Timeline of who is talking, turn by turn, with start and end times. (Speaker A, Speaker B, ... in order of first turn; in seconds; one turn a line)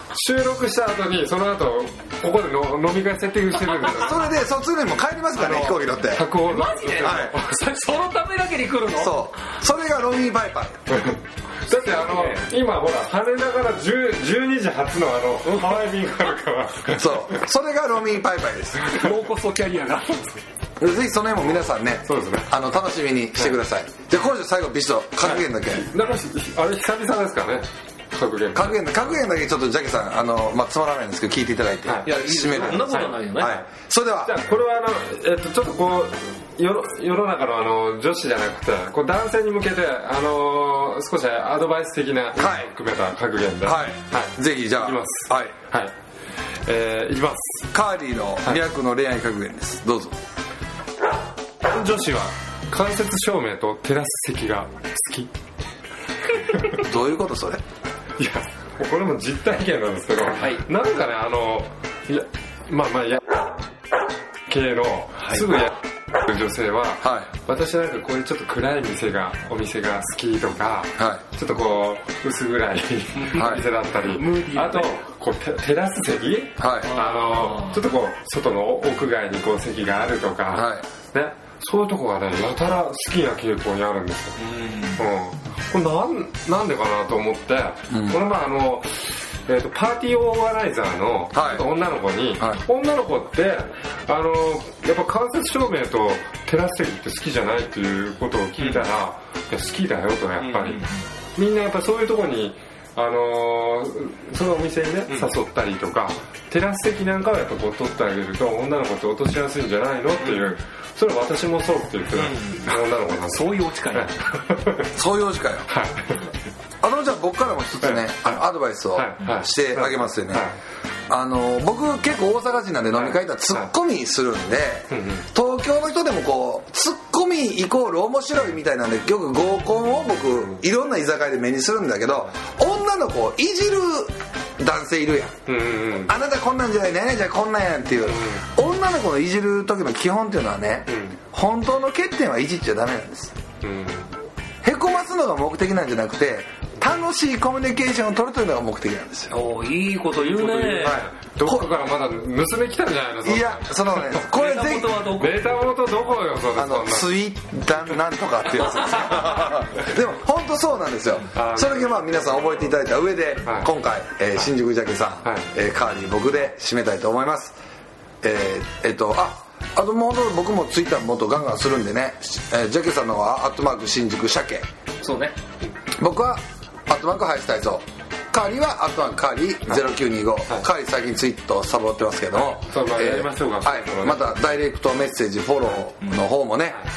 Speaker A: 0.1-4.3
Speaker B: 4.0-6.3
Speaker C: 5.4-5.8
Speaker A: 6.1-7.5
Speaker C: 6.4-9.2
Speaker B: 7.0-7.4
Speaker B: 9.0-10.8
Speaker A: 10.9-17.4
Speaker C: 11.7-12.4
Speaker C: 15.5-16.0
Speaker B: 16.9-19.0
Speaker C: 18.8-20.4
Speaker A: 18.9-19.1
Speaker B: 20.8-25.9
Speaker A: 22.1-22.5
Speaker A: 25.2-28.8
Speaker B: 28.5-34.4
Speaker A: 31.9-33.6
Speaker C: 32.0-33.6
Speaker A: 34.2-46.0
Speaker B: 42.4-42.7
Speaker B: 43.6-45.5
Speaker A: 46.6-47.7
Speaker B: 47.7-50.2
Speaker A: 51.6-55.3
Speaker A: 56.5-56.8
Speaker B: 56.8-57.6
Speaker A: 58.2-63.2
Speaker C: 60.4-60.6
Speaker A: 64.5-84.4
Speaker C: 65.2-65.5
Speaker B: 67.0-67.3
Speaker B: 71.0-71.2
Speaker C: 73.2-75.0
Speaker B: 73.4-73.6
Speaker B: 76.6-76.9
Speaker C: 76.8-77.8
Speaker B: 80.5-80.8
Speaker C: 84.4-85.0
Speaker A: 85.0-100.8
Speaker B: 87.9-88.2
Speaker B: 91.3-91.7
Speaker C: 98.6-98.8
Speaker C: 100.4-101.1
Speaker A: 101.3-114.9
Speaker C: 110.2-110.5
Speaker C: 112.1-114.3
Speaker B: 115.0-115.7
Speaker A: 115.7-116.3
Speaker B: 116.8-120.5
Speaker A: 117.8-118.4
Speaker A: 118.9-120.6
Speaker B: 121.1-143.3
Speaker A: 123.0-123.7
Speaker A: 124.9-125.2
Speaker A: 135.5-136.1
Speaker A: 138.1-138.4
Speaker A: 143.6-144.1
Speaker B: 144.6-149.4
Speaker C: 149.3-151.0
Speaker A: 150.2-154.2
Speaker B: 150.8-151.7
Speaker B: 153.2-155.0
Speaker C: 154.3-155.5
Speaker A: 155.2-157.1
Speaker B: 156.6-167.6
Speaker A: 161.3-161.9
Speaker A: 163.5-163.7
Speaker B: 168.2-174.7
Speaker C: 175.0-175.4
Speaker B: 175.9-186.8
Speaker A: 182.7-184.4